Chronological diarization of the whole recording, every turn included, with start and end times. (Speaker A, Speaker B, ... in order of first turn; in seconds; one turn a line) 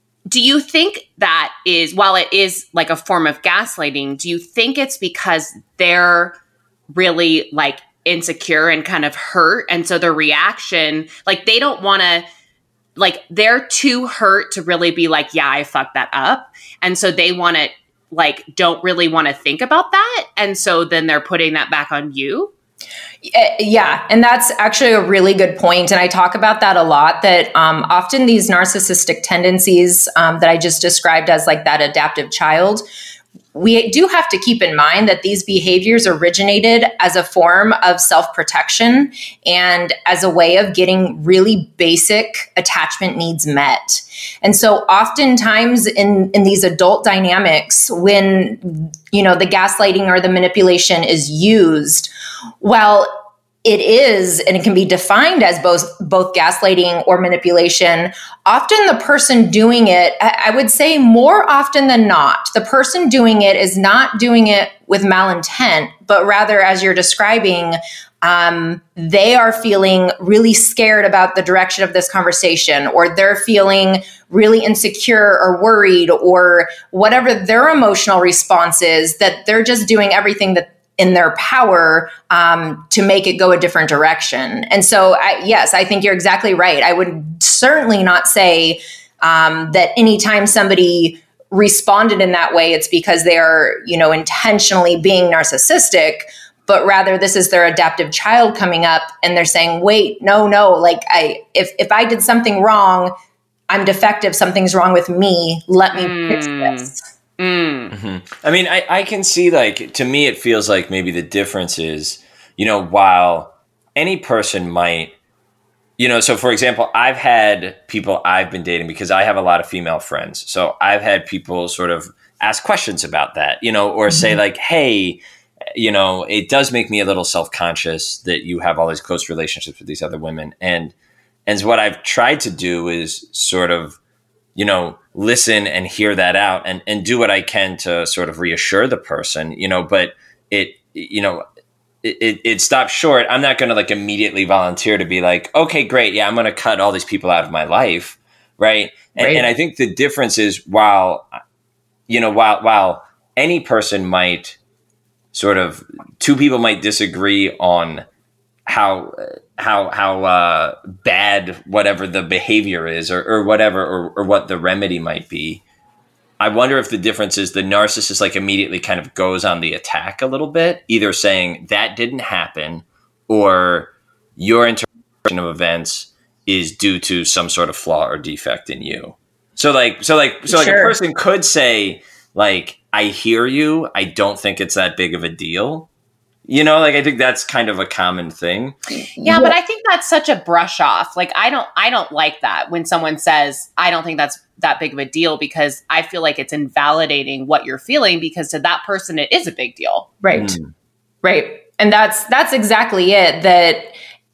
Speaker A: 0.3-6.3
Speaker A: 6.9-12.2
Speaker A: 13.0-22.5
Speaker B: 23.2-32.8
Speaker B: 33.5-53.1
Speaker B: 53.6-103.1
Speaker B: 103.7-107.0
Speaker A: 105.9-107.9
Speaker C: 107.9-115.1
Speaker C: 116.0-125.2
Speaker C: 125.7-130.9
Speaker C: 131.5-134.0
Speaker C: 134.6-141.4
Speaker C: 142.0-151.3
Speaker B: 149.2-149.4
Speaker C: 152.1-154.6
Speaker C: 155.3-158.0
Speaker C: 158.7-165.6
Speaker C: 166.4-185.9
Speaker B: 180.5-180.9
Speaker C: 186.4-188.8
Speaker B: 189.1-189.5
Speaker A: 189.2-200.1
Speaker B: 200.2-200.6
Speaker C: 200.3-200.7
Speaker B: 201.2-203.9